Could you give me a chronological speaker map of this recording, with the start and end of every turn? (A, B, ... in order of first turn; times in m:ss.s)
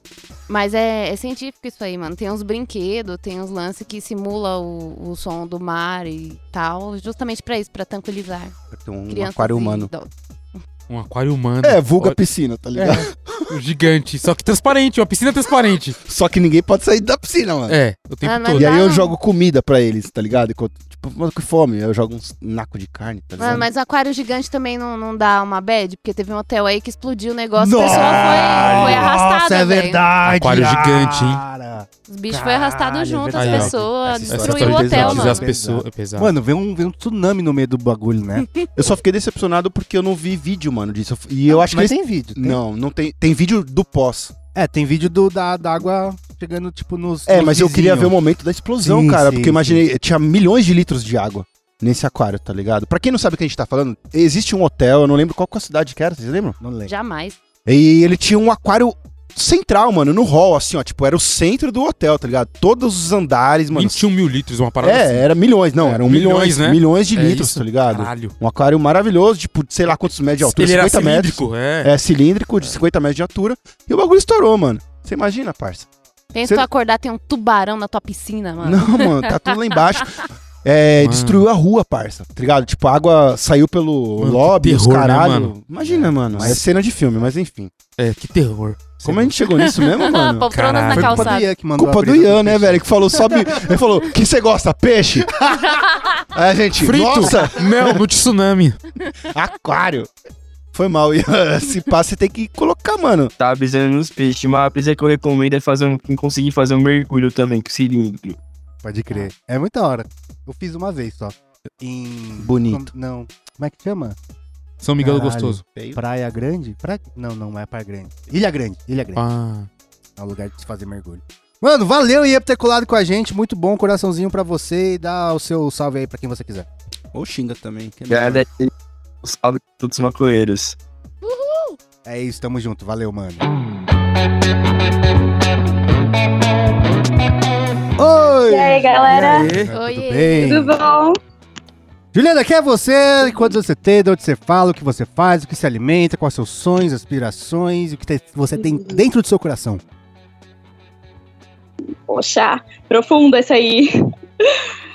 0:00.5-0:08.5 A
0:08.7-0:09.9 B
0:09.1-0:10.6 A
0:10.9-0:12.2 C
0:11.6-0:13.5 B
0:12.8-0:16.0 C
0:16.0-0:17.8 B
0:17.7-0:18.7 C
0:18.2-0:19.2 A
0:18.5-0:23.7 B
0:23.4-0:30.0 A
0:27.6-0:38.5 D
0:28.0-0:29.1 C
0:30.2-0:31.4 C
0:32.1-0:35.5 A
0:33.3-0:33.7 C
0:34.0-0:35.3 B
0:34.3-0:36.3 C
0:38.4-0:38.7 A
0:38.8-0:44.3 B
0:41.5-0:42.6 D
0:44.5-0:48.1 D
0:47.3-0:56.6 B
0:48.8-0:49.8 D
0:56.6-0:56.9 D
0:56.8-0:57.4 A
0:57.6-1:04.1 B
1:03.7-1:05.2 C
1:04.8-1:15.9 B
1:05.8-1:08.4 C
1:10.4-1:11.9 C
1:16.3-1:19.4 A
1:18.6-1:27.7 B
1:21.0-1:21.5 C
1:24.2-1:25.5 C
1:25.8-1:26.7 D
1:28.0-1:29.3 C
1:29.0-1:30.5 B
1:29.6-1:31.5 A
1:30.5-1:31.3 C
1:30.9-1:33.8 D
1:31.8-1:35.3 B
1:35.3-1:35.7 D
1:36.3-1:38.0 B
1:36.8-1:38.8 C
1:39.2-1:40.1 B
1:40.7-1:43.3 B
1:43.4-1:48.4 E
1:48.8-1:54.2 D
1:52.4-1:52.9 B
1:54.8-1:55.6 C
1:55.0-1:59.2 D
1:55.7-1:56.0 B
1:59.2-1:59.7 C
2:00.2-2:06.7 D
2:07.1-2:08.4 B
2:08.1-2:08.7 E
2:09.2-2:10.8 E
2:11.2-2:11.8 A
2:12.0-2:13.4 D
2:18.0-2:20.8 D
2:18.5-2:19.5 F
2:19.1-2:19.7 C
2:19.7-2:20.5 A
2:20.4-2:21.2 F
2:22.1-2:29.8 D
2:28.6-2:29.0 F
2:32.1-2:33.9 F